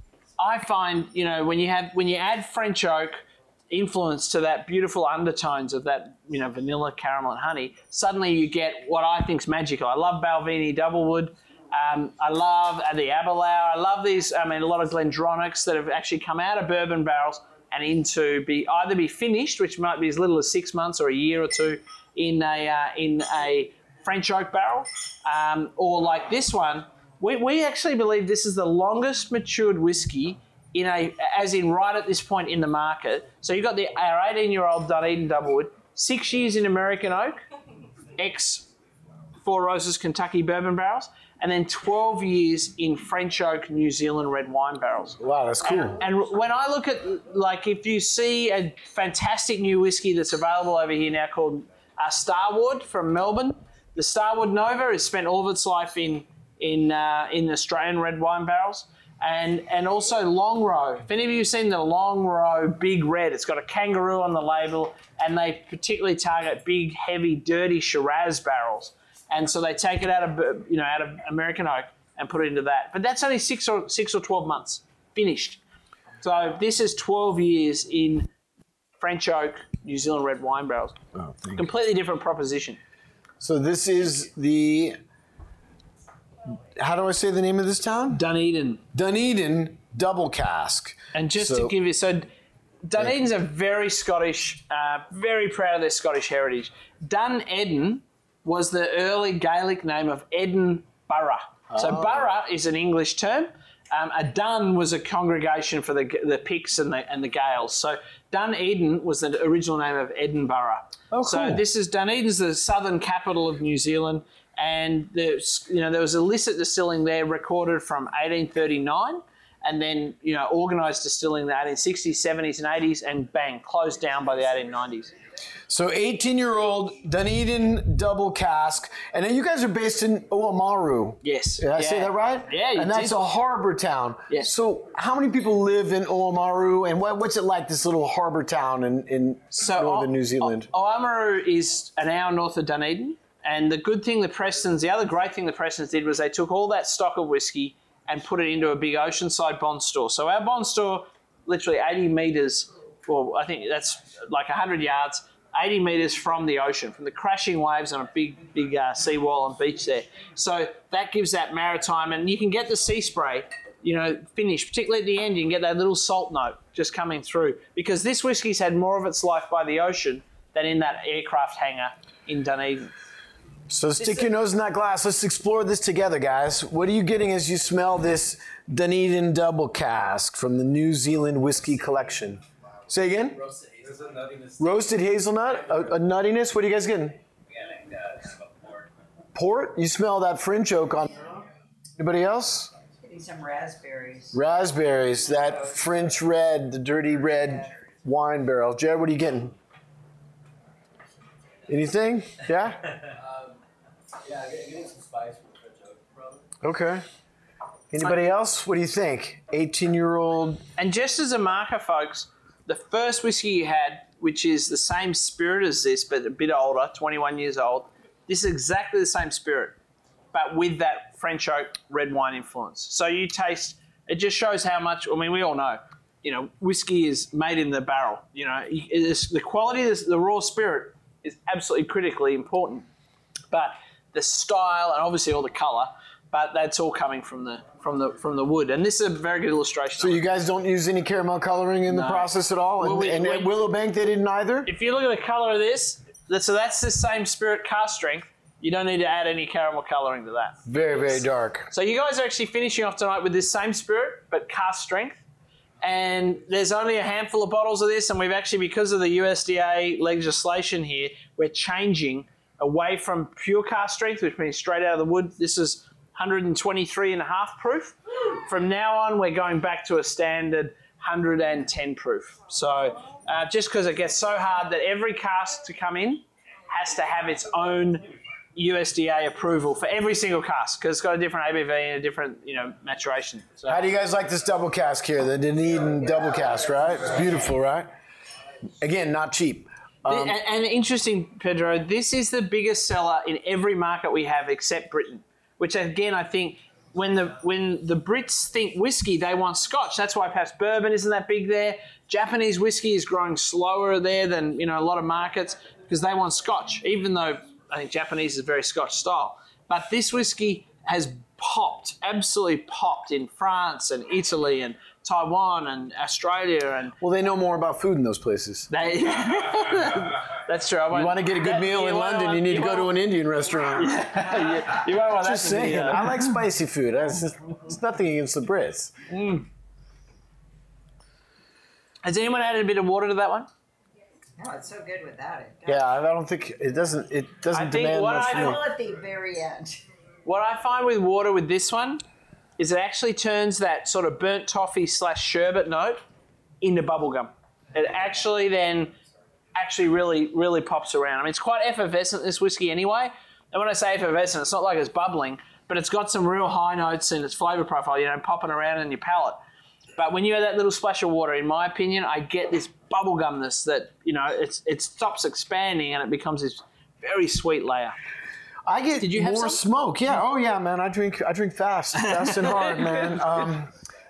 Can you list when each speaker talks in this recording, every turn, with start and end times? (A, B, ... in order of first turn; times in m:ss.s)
0:00.4-0:37.4 A
0:38.2-0:38.7 A
0:39.4-1:15.6 A
0:45.2-0:46.0 B
1:16.2-1:18.3 A
1:19.0-1:21.0 A
1:21.1-1:21.7 B
1:21.6-1:22.8 A
1:23.4-1:25.0 B
1:26.8-1:28.2 B
1:28.1-1:28.8 A
1:28.9-1:31.7 B
1:31.1-1:32.3 A
1:32.8-2:05.1 A
1:41.7-1:42.3 B
1:51.1-1:51.6 B
2:05.7-2:20.7 B
2:11.2-2:13.2 A
2:19.6-2:52.9 A
2:53.7-3:03.4 B
2:54.0-2:54.3 A
3:03.3-3:04.8 C
3:04.6-3:07.2 B
3:07.5-3:08.8 C
3:09.4-3:11.4 B
3:12.0-3:12.7 B
3:13.0-3:14.4 D
3:14.3-3:19.5 B
3:21.7-3:22.9 B
3:23.2-3:23.6 C
3:24.2-3:26.4 C
3:26.6-3:27.0 B
3:27.9-3:30.6 B
3:30.8-3:39.8 A
3:40.3-3:52.9 A
3:53.5-4:00.2 A
4:00.0-4:04.7 B
4:01.9-4:03.6 A
4:04.7-4:10.6 A
4:10.7-4:11.7 B
4:11.7-4:15.2 A
4:15.8-4:43.9 A
4:43.7-4:47.9 B
4:48.8-4:50.4 B
4:50.1-5:17.0 A
5:17.0-5:18.7 B
5:18.7-5:22.9 A
5:20.9-5:24.1 B
5:23.8-5:26.1 A
5:25.2-5:28.9 B
5:29.1-5:29.4 A
5:32.0-5:33.5 A
5:34.4-5:35.8 D
5:35.7-5:38.6 B
5:37.5-5:38.6 A
5:38.2-5:39.8 D
5:40.2-5:42.0 A
5:42.6-5:46.0 A
5:46.6-5:48.9 A
5:49.6-5:59.4 A
6:00.0-6:08.0 A
6:08.7-6:13.7 B
6:09.0-6:09.6 A
6:12.0-6:13.2 A